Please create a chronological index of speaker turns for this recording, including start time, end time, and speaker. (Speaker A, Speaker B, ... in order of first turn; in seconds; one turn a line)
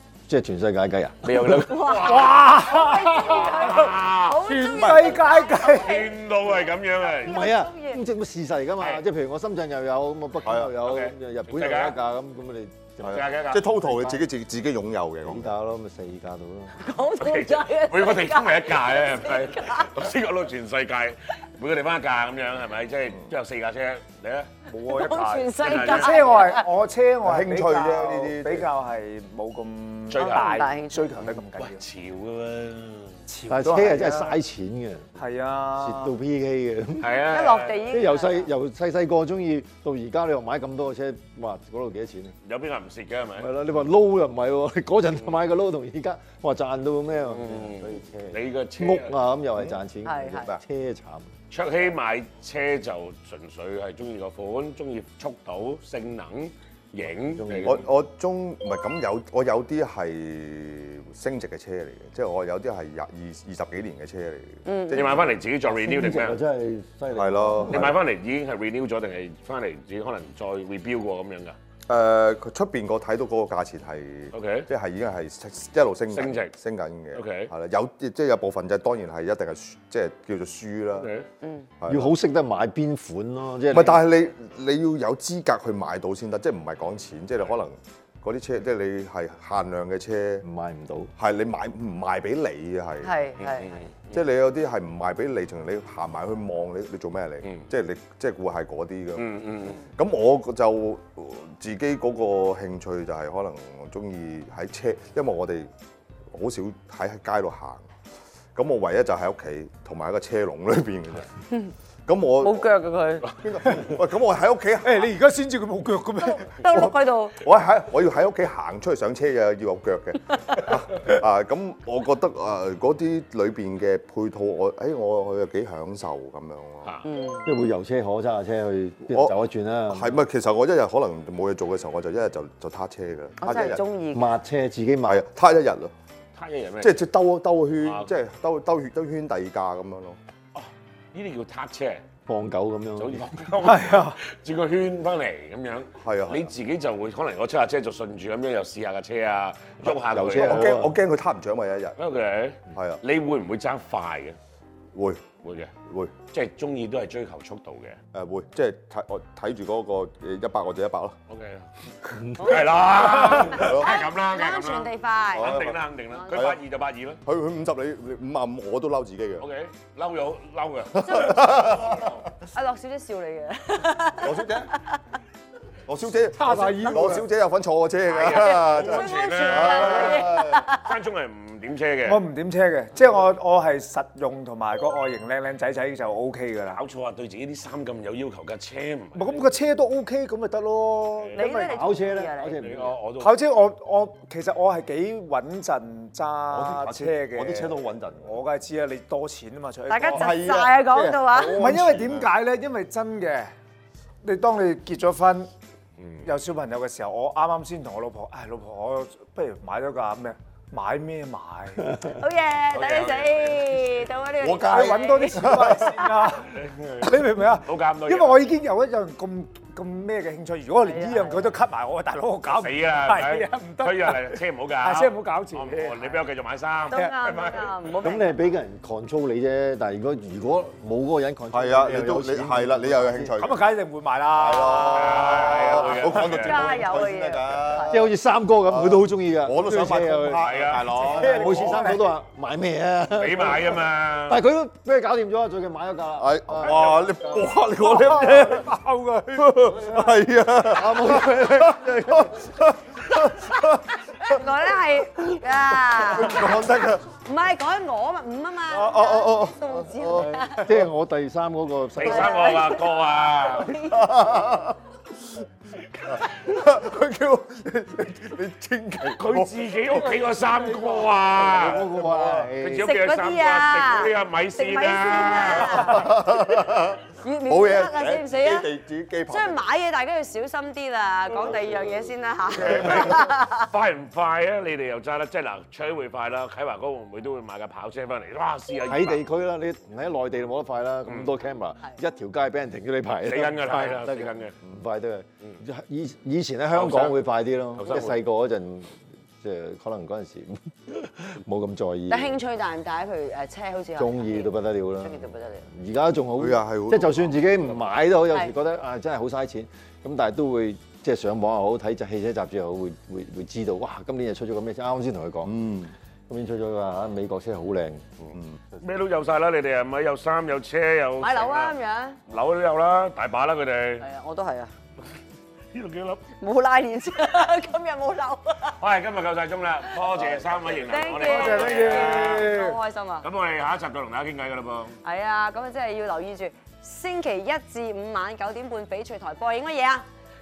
Speaker A: 0.3-1.6
Speaker B: 1.2-2.4
Speaker C: 1.6-6.2
Speaker D: 1.9-6.0
Speaker B: 3.4-4.4
Speaker E: 4.8-5.1
Speaker B: 5.7-7.3
Speaker C: 7.0-8.0
Speaker A: 7.2-14.2
Speaker E: 10.4-10.7
Speaker B: 10.8-12.0
Speaker E: 13.0-15.5
Speaker B: 13.1-13.6
Speaker A: 15.2-16.9
Speaker C: 16.8-19.9
Speaker B: 17.2-24.5
Speaker D: 24.7-31.8
Speaker C: 24.9-26.7
Speaker B: 25.6-26.5
Speaker E: 27.2-28.7
Speaker B: 30.1-30.6
Speaker C: 30.1-31.1
Speaker B: 31.2-33.2
Speaker D: 33.3-34.4
Speaker A: 33.5-35.1
Speaker D: 35.2-36.1
Speaker A: 35.8-37.3
Speaker B: 37.0-37.8
Speaker C: 37.3-38.5
Speaker A: 37.9-42.4
Speaker B: 42.4-43.5
Speaker A: 43.4-51.3
Speaker B: 47.2-49.1
Speaker E: 49.5-50.6
Speaker C: 50.0-50.5
Speaker B: 51.5-57.8
Speaker A: 57.4-57.9
Speaker E: 57.6-65.4
Speaker C: 64.6-65.3
Speaker B: 64.9-66.4
Speaker A: 65.6-68.0
Speaker E: 67.1-68.0
Speaker B: 67.7-71.6
Speaker E: 71.9-81.1
Speaker B: 74.3-74.7
Speaker B: 76.1-76.5
Speaker B: 77.1-77.5
Speaker B: 80.9-81.3
Speaker C: 81.4-81.7
Speaker E: 81.8-82.1
Speaker A: 81.9-84.1
Speaker E: 83.7-90.4
Speaker A: 90.4-91.1
Speaker E: 91.2-93.1
Speaker C: 93.0-93.8
Speaker B: 93.4-94.2
Speaker E: 94.1-105.7
Speaker B: 99.2-99.8
Speaker E: 106.3-107.9
Speaker E: 108.5-111.3
Speaker E: 112.1-112.7
Speaker C: 112.4-113.3
Speaker E: 113.4-115.1
Speaker D: 114.8-116.6
Speaker C: 116.2-117.3
Speaker E: 116.7-126.9
Speaker C: 127.0-127.5
Speaker A: 127.4-130.2
Speaker E: 129.9-133.8
Speaker C: 133.4-134.3
Speaker A: 134.1-135.2
Speaker E: 135.0-135.9
Speaker B: 136.3-137.0
Speaker E: 136.8-140.2
Speaker B: 137.8-138.1
Speaker B: 140.5-142.0
Speaker A: 142.3-143.5
Speaker B: 143.0-150.8
Speaker D: 143.6-144.2
Speaker E: 146.0-146.5
Speaker E: 149.8-152.0
Speaker A: 149.9-151.0
Speaker B: 152.0-154.4
Speaker E: 152.7-153.0
Speaker E: 154.9-155.3
Speaker B: 155.4-155.7
Speaker E: 155.8-156.1
Speaker B: 156.3-158.0
Speaker E: 158.1-161.2
Speaker B: 161.3-161.7
Speaker B: 162.3-167.2
Speaker C: 162.4-166.3
Speaker E: 163.5-163.9
Speaker E: 165.3-166.6
Speaker E: 167.2-169.4
Speaker B: 169.4-172.2
Speaker E: 170.9-172.1
Speaker C: 171.0-172.0
Speaker C: 172.5-175.0
Speaker E: 174.2-174.7
Speaker E: 175.9-180.7
Speaker D: 176.4-177.3
Speaker B: 178.1-182.2
Speaker C: 178.3-180.8
Speaker D: 182.0-186.8
Speaker B: 186.7-189.4
Speaker D: 189.1-191.7
Speaker C: 191.3-192.6
Speaker A: 191.7-192.9
Speaker B: 192.6-193.4
Speaker D: 193.2-200.6
Speaker E: 196.5-198.4
Speaker C: 199.9-201.6
Speaker E: 200.0-202.3
Speaker D: 201.4-203.5
Speaker D: 204.2-205.5
Speaker B: 206.0-206.3
Speaker D: 206.2-211.9
Speaker C: 212.1-215.7
Speaker B: 212.7-214.0
Speaker E: 214.4-216.3
Speaker D: 214.6-226.2
Speaker B: 216.5-218.5
Speaker C: 220.8-221.5
Speaker B: 222.5-227.5
Speaker C: 226.9-228.4
Speaker D: 226.9-227.6
Speaker A: 228.0-233.3
Speaker E: 231.5-233.7
Speaker D: 233.4-236.4
Speaker E: 234.3-238.1
Speaker B: 234.9-236.9
Speaker C: 236.4-237.9
Speaker A: 237.9-246.9
Speaker E: 238.6-241.9
Speaker B: 240.4-241.0
Speaker D: 241.0-242.1
Speaker B: 243.1-244.4
Speaker E: 246.2-248.7
Speaker D: 246.7-247.1
Speaker D: 247.7-249.6
Speaker E: 249.4-254.4
Speaker A: 250.7-251.8
Speaker C: 254.2-256.4
Speaker E: 256.0-257.1
Speaker C: 257.2-260.7
Speaker E: 258.7-260.8
Speaker A: 260.2-262.8
Speaker B: 261.9-263.7
Speaker C: 262.0-264.2
Speaker E: 263.7-264.8
Speaker E: 266.0-272.5
Speaker B: 269.0-271.9
Speaker A: 271.3-272.9
Speaker B: 272.6-276.1
Speaker C: 272.8-276.1
Speaker E: 275.6-279.6
Speaker C: 277.2-278.7
Speaker C: 279.3-283.7
Speaker E: 281.3-282.1
Speaker B: 282.6-289.2
Speaker E: 282.6-282.9
Speaker A: 288.9-302.4
Speaker B: 291.1-291.3
Speaker B: 293.2-294.5
Speaker B: 296.7-297.2
Speaker B: 297.8-298.2
Speaker C: 302.1-305.7
Speaker A: 304.0-315.6
Speaker E: 306.4-307.4
Speaker E: 315.4-315.9
Speaker A: 316.3-318.1
Speaker E: 318.3-318.6
Speaker B: 318.8-321.7
Speaker C: 321.2-322.2
Speaker B: 322.3-324.1
Speaker C: 324.0-324.7
Speaker B: 325.7-326.3
Speaker C: 326.4-328.8
Speaker B: 328.7-332.5
Speaker C: 330.9-333.3
Speaker D: 331.2-332.8
Speaker B: 333.2-335.0
Speaker C: 335.0-340.0